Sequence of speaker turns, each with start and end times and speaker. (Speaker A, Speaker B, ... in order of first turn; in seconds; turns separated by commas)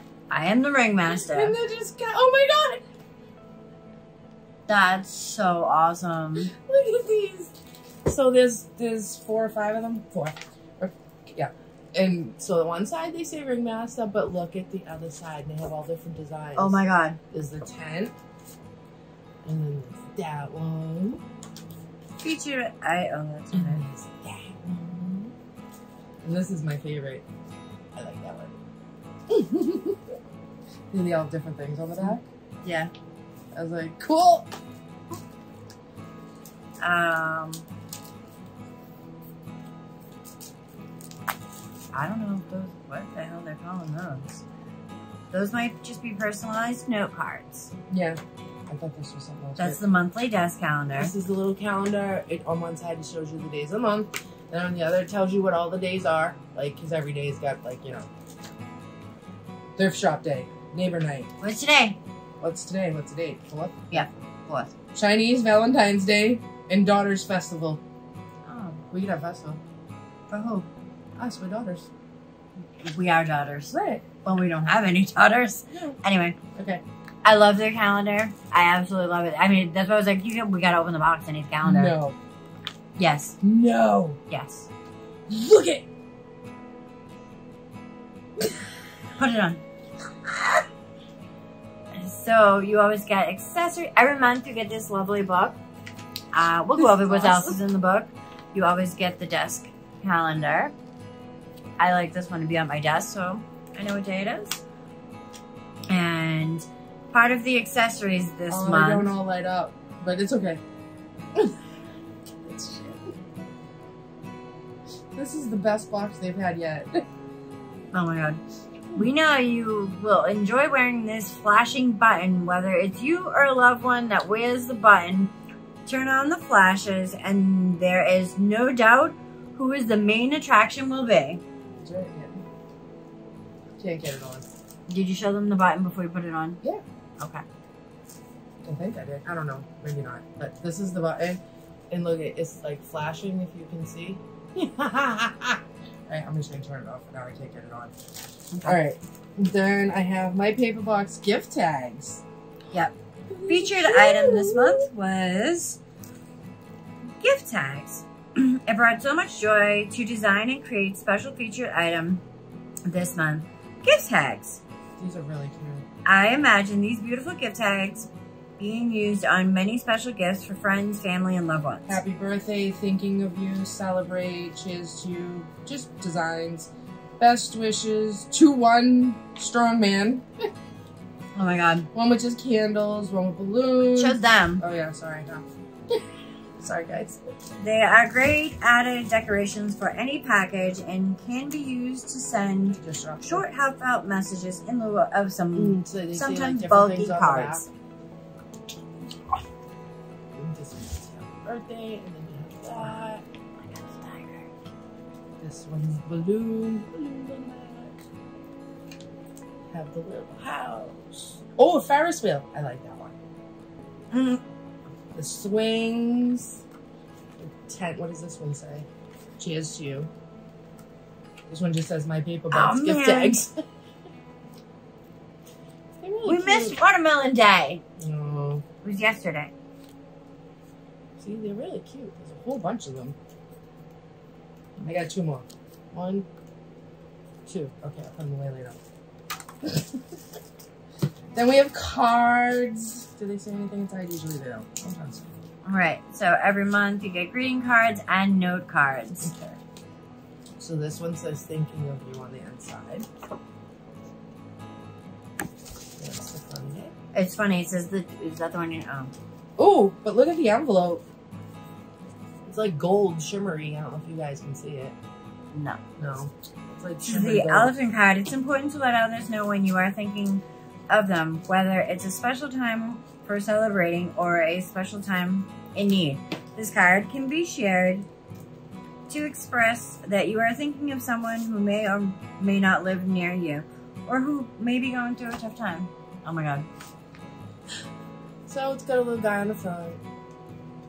Speaker A: 0.3-1.6, Speaker B: 1.1-2.8, Speaker A: 4.7-6.5, Speaker B: 6.5-7.5, Speaker B: 8.1-18.1, Speaker A: 16.6-17.2, Speaker B: 19.4-21.2, Speaker A: 22.2-23.8, Speaker B: 23.5-25.3, Speaker B: 26.2-27.2, Speaker B: 28.0-28.6, Speaker B: 29.3-30.1, Speaker B: 30.9-32.3, Speaker A: 32.0-32.9, Speaker B: 33.5-34.5, Speaker A: 36.8-37.7, Speaker A: 41.9-44.4, Speaker A: 45.3-47.7, Speaker B: 47.9-49.8, Speaker A: 49.6-51.1, Speaker B: 51.0-58.1, Speaker B: 59.8-61.3, Speaker A: 61.4-62.0, Speaker B: 62.4-64.2, Speaker A: 63.9-64.7, Speaker B: 64.9-67.8, Speaker A: 68.5-68.8, Speaker B: 68.9-69.6, Speaker A: 70.3-70.7, Speaker B: 71.2-71.9, Speaker A: 72.8-76.4, Speaker B: 73.7-74.0, Speaker B: 75.7-76.0, Speaker B: 76.5-76.8, Speaker A: 77.2-82.0, Speaker B: 81.6-82.2, Speaker A: 83.0-83.4, Speaker B: 83.4-84.2, Speaker A: 84.3-84.7, Speaker B: 85.3-85.9, Speaker A: 89.2-89.6, Speaker A: 91.9-95.6, Speaker A: 96.3-100.7, Speaker B: 96.8-97.6, Speaker A: 101.8-104.6, Speaker A: 105.9-109.1, Speaker B: 108.5-110.6, Speaker B: 112.4-113.1, Speaker B: 115.2-117.0, Speaker A: 117.9-118.4, Speaker A: 118.9-125.3, Speaker A: 125.9-131.4, Speaker B: 131.8-132.4, Speaker B: 133.8-134.5, Speaker A: 134.9-136.6, Speaker B: 138.6-147.9, Speaker A: 148.5-148.8, Speaker B: 148.6-152.2, Speaker B: 153.3-154.9, Speaker A: 153.5-155.8, Speaker A: 157.2-162.2, Speaker A: 162.9-164.6, Speaker B: 165.0-165.8, Speaker A: 166.1-172.0, Speaker B: 171.9-180.3, Speaker A: 181.3-181.9, Speaker B: 181.9-185.5, Speaker A: 183.9-184.6, Speaker B: 186.6-187.2, Speaker A: 187.6-197.7, Speaker B: 192.8-193.5, Speaker B: 195.5-197.7, Speaker B: 200.3-203.2, Speaker A: 202.8-203.1, Speaker A: 203.6-204.6, Speaker B: 205.4-208.0, Speaker B: 209.7-213.2, Speaker A: 214.1-214.4, Speaker B: 215.1-216.6, Speaker B: 217.4-218.9, Speaker B: 219.4-220.1, Speaker B: 221.5-223.6, Speaker A: 222.5-223.4, Speaker B: 226.0-226.8, Speaker A: 226.2-227.8, Speaker B: 228.0-228.6, Speaker A: 228.8-229.5, Speaker B: 231.2-233.2, Speaker B: 234.8-236.3, Speaker B: 237.5-238.8, Speaker B: 239.6-240.0, Speaker B: 241.3-245.3, Speaker A: 245.7-249.3, Speaker B: 249.2-249.6, Speaker B: 250.6-253.1, Speaker B: 256.0-256.9, Speaker A: 257.1-259.1, Speaker B: 259.6-261.0, Speaker B: 262.4-265.0, Speaker A: 265.5-265.8, Speaker B: 266.0-267.8, Speaker A: 267.0-278.1, Speaker A: 279.1-286.7, Speaker B: 288.5-290.0